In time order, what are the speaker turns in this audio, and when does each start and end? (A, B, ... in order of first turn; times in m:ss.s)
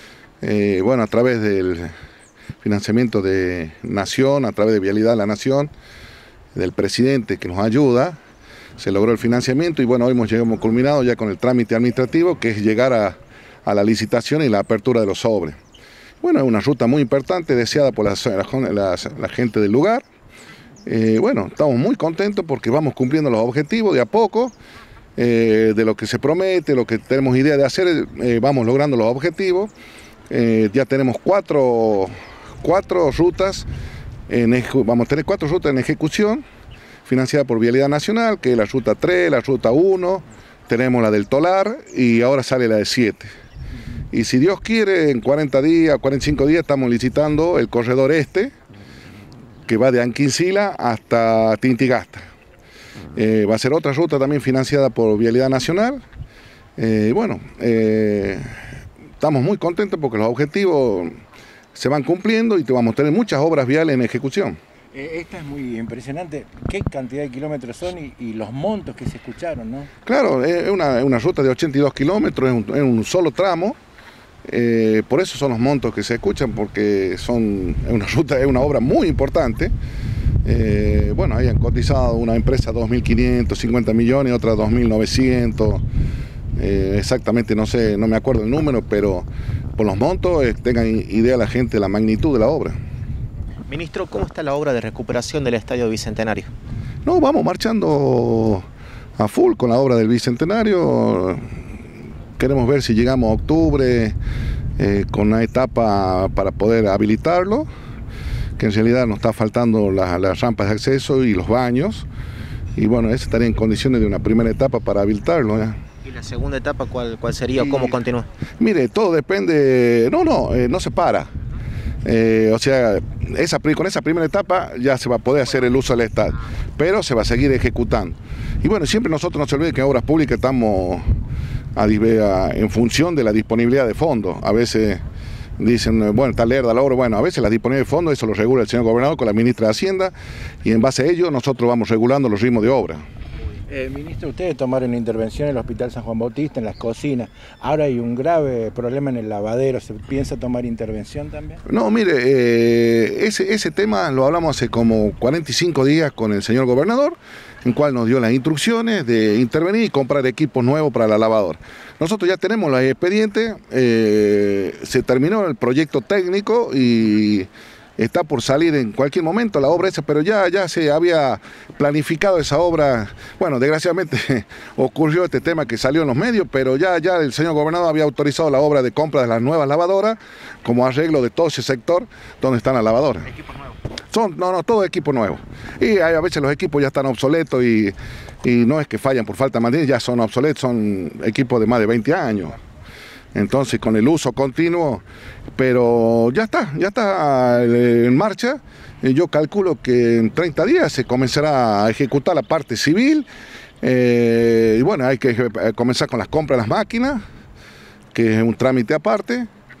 0:00.4-0:01.9 A
0:02.6-0:05.7 A
0:06.5-0:08.2 A
0:08.8-0:15.6 A
0:16.2-0:20.0 A
0:20.8-0:24.5 A
0:25.2-0:29.7 A
0:30.3-0:33.7 A
0:34.3-0:36.4 A
0:37.0-0:43.3 A
0:44.1-0:48.5 A
0:49.7-0:52.2 A
0:53.1-0:56.0 A
0:56.8-0:58.6 A
0:59.2-1:01.1 A
1:01.7-1:04.6 A
1:04.9-1:09.9 B
1:10.0-1:13.8 A
1:14.4-1:19.7 A
1:20.4-1:25.8 A
1:26.6-1:32.7 A
1:33.7-1:36.5 C
1:37.0-1:38.6 A
1:39.2-1:41.4 A
1:42.4-1:44.2 A
1:44.8-1:47.7 A
1:48.6-1:52.0 A
1:52.8-1:55.8 A
1:56.0-1:58.3 C
1:57.6-1:58.0 A
1:58.6-2:01.3 A
2:02.0-2:11.1 A
2:11.8-2:15.0 A
2:15.6-2:23.0 A
2:23.7-2:31.6 B
2:31.6-3:03.4 A
3:04.1-3:12.6 A
3:13.3-3:15.0 A
3:15.6-3:23.3 A
3:23.8-3:27.2 A
3:28.1-3:29.5 A